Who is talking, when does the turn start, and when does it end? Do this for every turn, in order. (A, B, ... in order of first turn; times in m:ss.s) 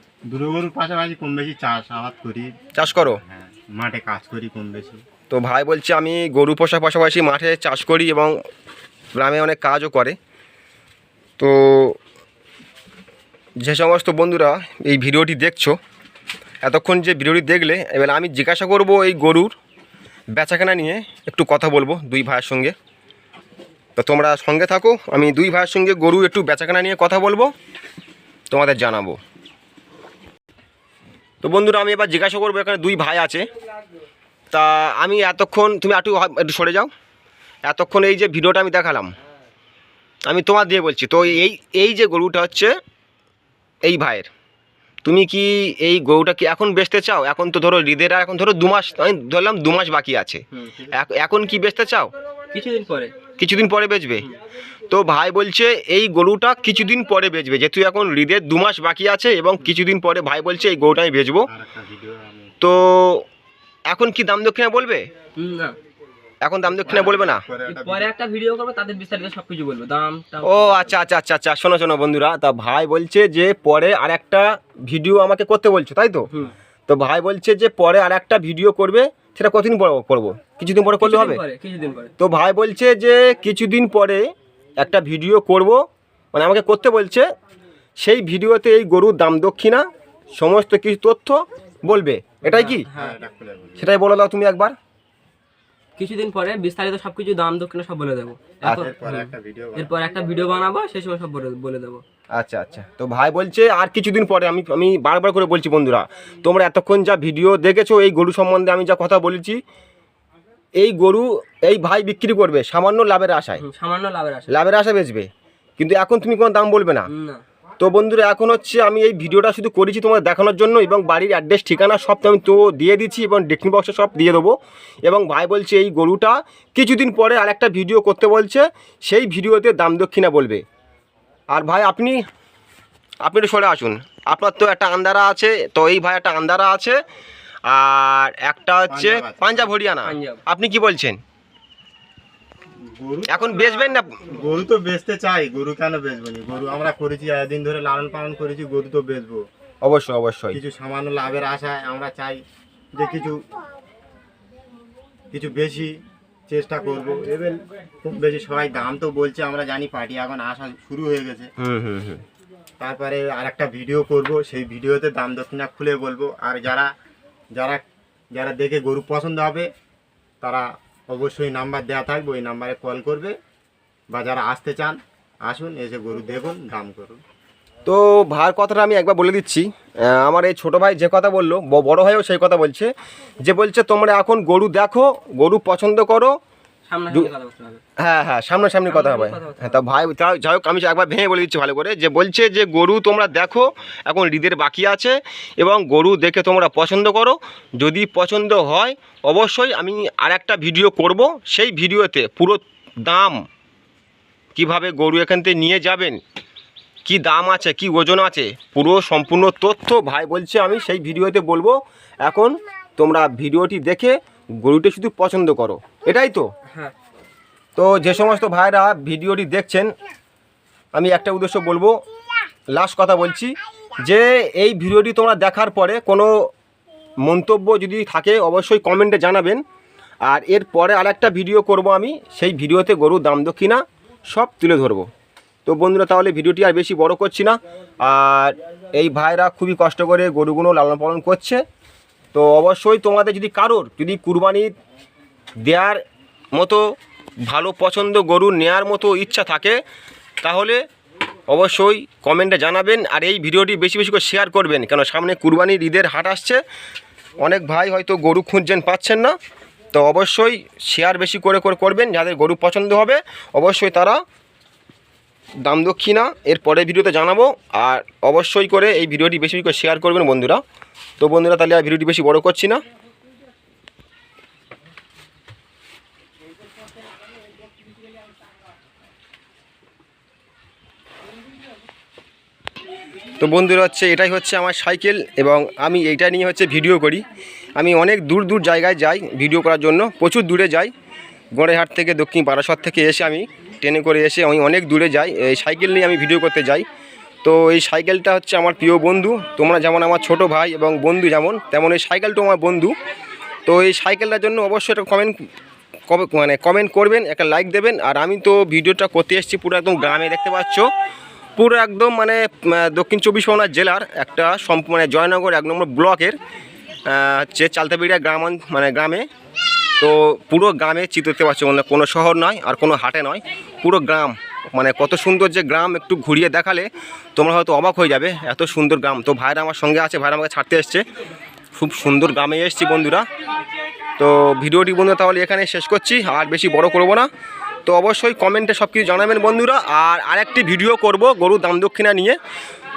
0:00.3-0:05.0 A
0:02.7-0:03.2 B
0:05.3-0:08.4 B
0:09.2-0:10.2 B
0:11.4-0:12.0 B
0:13.6-0:15.8 B
0:16.6-0:19.5 B
0:20.4-0:22.7 B
0:24.0-0:27.5 B
0:28.5-0:29.2 B
0:31.4-0:33.5 B
0:34.5-0:36.9 B
0:37.6-0:39.2 B
0:40.2-0:42.8 B
0:43.8-0:44.3 B
0:45.0-0:52.1 B
0:50.5-0:50.9 C
0:52.5-0:53.1 C
0:53.4-0:54.2 B
0:54.9-1:01.5 B
1:01.5-1:02.6 A
1:02.6-1:03.3 B
1:03.9-1:05.1 B
1:05.4-1:05.8 C
1:06.4-1:07.4 B
1:06.6-1:08.1 A
1:07.6-1:11.0 C
1:10.4-1:16.3 B
1:16.9-1:21.4 B
1:21.0-1:22.1 C
1:22.2-1:27.3 B
1:28.0-1:29.8 B
1:30.4-1:32.8 B
1:32.4-1:33.2 C
1:32.9-1:33.9 A
1:33.8-1:34.7 B
1:36.0-1:42.0 C
1:38.6-1:40.0 A
1:42.4-1:49.6 B
1:50.8-1:53.6 B
1:53.6-1:54.5 C
1:54.5-1:57.1 B
1:57.1-1:57.4 C
1:57.8-2:10.6 B
2:11.5-2:12.2 B
2:13.2-2:17.0 B
2:17.6-2:21.2 B
2:18.9-2:19.7 A
2:20.0-2:20.4 C
2:22.8-2:29.5 A
2:23.3-2:24.2 B
2:29.8-2:30.6 B
2:30.5-2:32.4 A
2:32.9-2:33.4 A
2:35.3-2:35.9 A
2:36.5-2:41.5 A
2:41.6-2:42.2 B
2:42.8-2:46.9 A
2:47.5-2:49.7 A
2:50.4-2:53.4 A
2:54.1-2:57.2 A
2:57.8-3:06.4 B
3:06.9-3:07.8 C
3:08.0-3:23.4 B
3:08.9-3:09.8 C
3:24.5-3:26.2 B
3:27.0-3:36.5 B
3:36.7-3:36.9 C
3:37.8-3:39.9 B
3:40.9-3:42.0 B
3:42.7-3:46.5 B
3:47.2-3:49.6 B
3:50.2-3:55.1 B
3:55.6-4:01.6 B
4:02.3-4:04.7 B
4:05.6-4:06.0 B
4:06.5-4:09.8 B
4:10.4-4:10.8 B
4:11.5-4:16.6 B
4:17.4-4:19.3 B
4:19.9-4:24.2 B
4:25.6-4:30.6 B
4:31.2-4:32.8 B
4:43.4-4:47.2 B
4:47.8-4:50.9 B
4:51.6-4:56.8 B
4:57.4-5:02.9 B
5:03.6-5:05.4 B
5:06.1-5:10.9 B
5:11.6-5:16.4 B
5:17.0-5:19.3 B
5:20.0-5:31.0 B
5:31.8-5:33.3 B
5:34.2-5:37.3 B
5:37.8-5:42.4 B